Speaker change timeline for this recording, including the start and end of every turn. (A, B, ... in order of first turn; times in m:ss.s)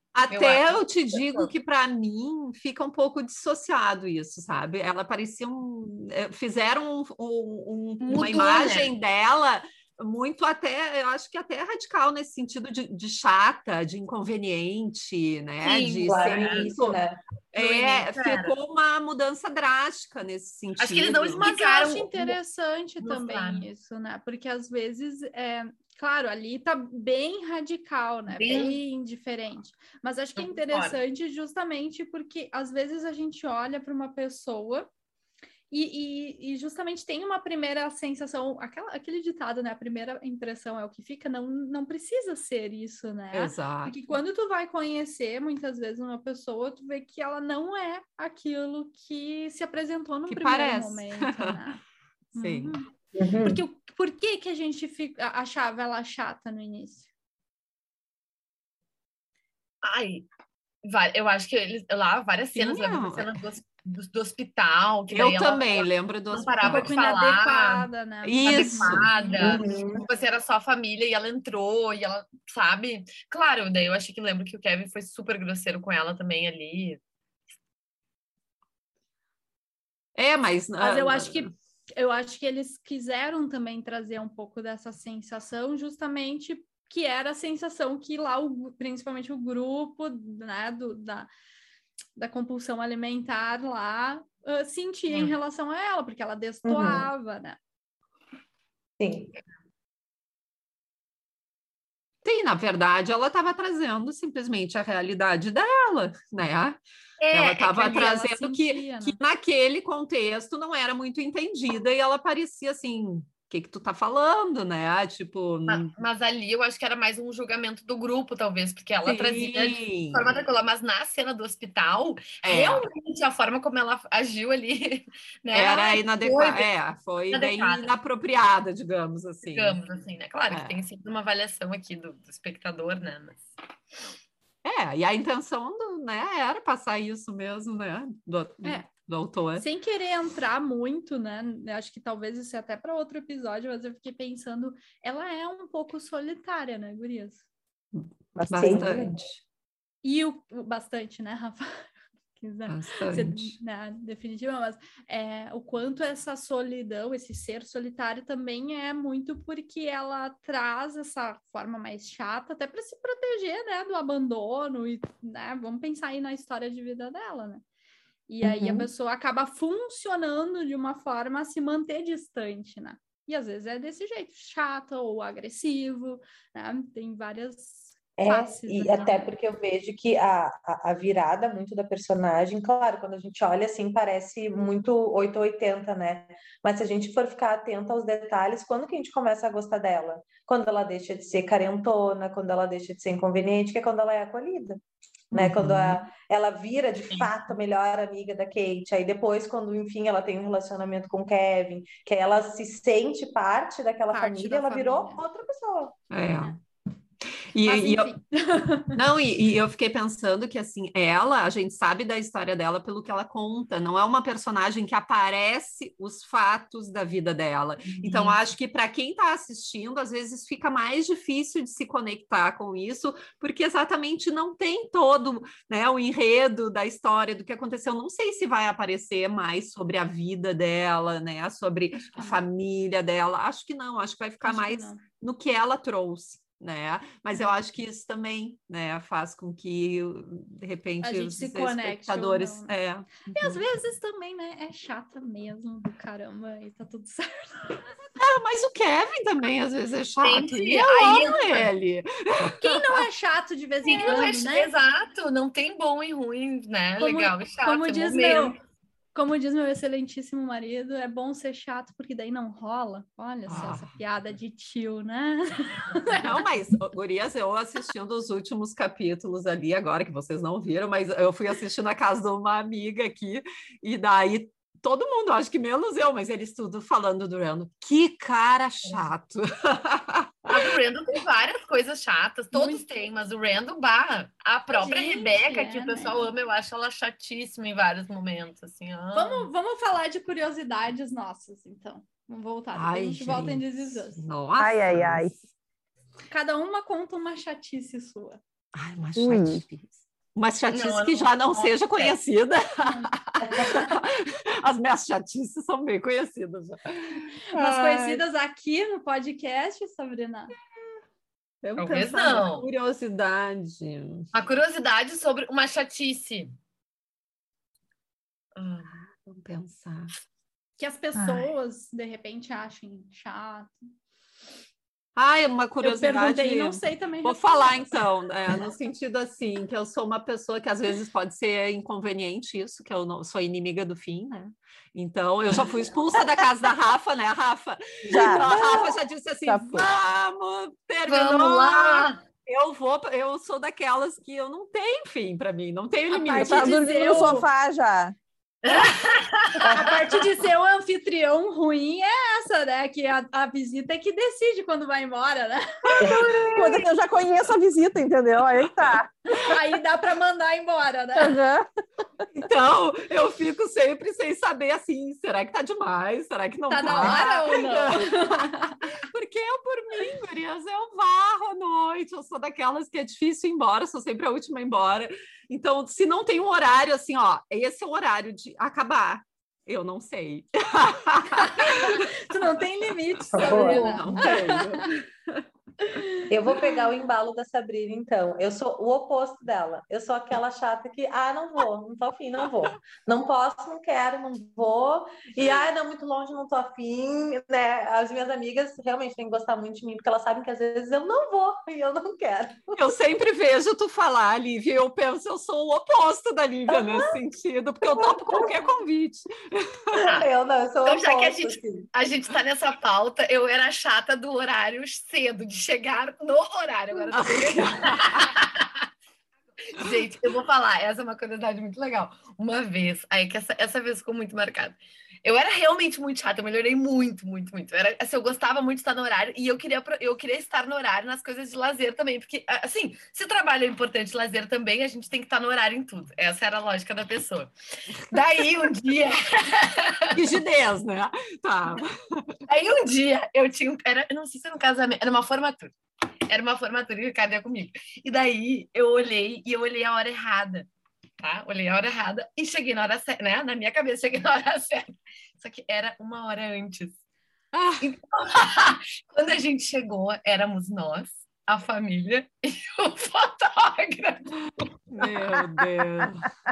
0:00.1-0:17.0 A
0:00.3-0:01.5 B
0:08.0-0:08.9 B
0:15.6-0:16.7 B
0:16.0-0:17.2 C
0:17.5-0:21.4 A
0:17.5-0:18.5 B
0:20.8-0:22.3 B
0:21.4-0:34.9 D
0:23.0-0:23.7 B
0:28.3-0:28.8 B
0:30.4-0:31.0 B
0:35.7-0:51.8 D
0:43.3-0:44.2 A
0:50.3-0:51.6 A
0:52.3-0:52.8 A
0:52.3-0:52.9 D
0:53.2-0:53.6 C
0:53.4-0:57.0 D
0:59.8-1:00.2 B
1:00.8-1:07.9 B
1:02.5-1:03.3 A
1:05.1-1:06.9 A
1:06.6-1:09.4 D
1:08.2-1:09.1 A
1:08.4-1:17.0 B
1:09.4-1:10.0 C
1:20.2-1:21.5 A
1:20.8-1:31.3 D
1:32.2-1:37.6 D
1:36.6-1:37.1 C
1:39.0-1:39.3 C
1:42.2-1:46.8 A
1:47.2-1:48.1 B
1:47.3-1:55.9 A
1:47.7-1:49.2 D
1:55.7-2:06.7 B
1:59.0-2:00.3 A
2:02.4-2:02.8 A
2:05.5-2:09.8 A
2:07.3-2:07.9 B
2:09.4-2:13.5 B
2:10.5-2:10.8 A
2:14.6-2:19.6 A
2:18.6-2:18.9 D
2:19.5-2:27.4 D
2:28.4-2:28.9 E
2:28.4-2:29.2 C
2:28.5-2:29.4 A
2:30.0-2:47.6 D
2:32.7-2:33.6 A
2:48.3-2:59.3 D
2:48.4-2:48.9 E
2:58.2-3:14.8 C
3:15.3-3:25.9 C
3:15.3-3:16.0 A
3:24.1-3:25.2 D
3:26.1-3:26.6 A
3:27.5-3:28.1 A
3:27.6-3:29.0 D
3:28.9-4:03.6 A
3:38.0-3:38.3 C
3:52.0-3:52.4 D
3:54.4-3:55.0 D
4:01.0-4:02.7 D
4:03.2-4:07.9 D
4:08.2-4:13.0 A
4:10.2-4:11.7 B
4:12.6-4:14.7 D
4:13.8-4:18.6 B
4:17.0-4:18.6 D
4:19.1-4:26.4 D
4:23.5-4:23.9 A
4:26.1-4:40.7 A
4:40.5-4:49.5 B
4:42.5-4:42.8 D
4:44.7-4:46.3 D
4:49.1-4:54.2 D
4:52.7-4:55.3 A
4:54.6-4:55.3 E
4:56.3-4:58.4 D
4:58.7-5:08.2 A
4:59.2-4:59.6 E
5:00.7-5:02.2 B
5:02.8-5:03.1 D
5:03.4-5:03.9 C
5:07.5-5:10.5 D
5:11.6-5:14.3 A
5:11.8-5:12.7 B
5:14.3-5:16.5 B
5:18.6-5:18.9 B
5:18.9-5:20.1 A
5:20.8-5:23.8 D
5:21.1-5:21.5 E
5:25.2-5:46.8 A
5:25.8-5:27.9 D
5:38.1-5:38.9 E
5:39.4-5:39.9 E
5:41.1-5:42.2 B
5:46.1-5:47.5 D
5:46.3-5:48.2 E
5:48.6-5:49.8 B
5:49.6-5:56.2 D
5:49.6-5:49.9 C
5:56.0-5:56.5 C
5:56.0-5:56.8 B
5:56.5-5:59.1 E
5:59.3-6:01.4 D
6:01.1-6:01.7 E
6:02.3-6:22.4 A
6:06.7-6:08.8 D
6:06.8-6:07.3 E
6:21.4-6:24.9 D
6:23.3-6:23.9 C
6:23.3-6:25.4 A
6:23.6-6:24.0 B
6:25.8-6:26.3 D
6:26.3-6:42.8 C
6:42.7-6:50.0 A
6:46.7-6:47.2 C
6:48.0-6:48.6 C
6:49.9-6:51.9 C
6:50.8-6:58.8 B
6:57.1-6:58.3 A
6:59.7-7:17.5 B
7:18.1-7:20.3 B
7:20.1-7:22.4 A
7:22.5-7:25.7 B
7:26.3-7:30.7 B
7:31.2-7:37.0 B
7:37.5-7:37.9 A
7:37.8-7:44.3 B
7:44.9-7:46.3 A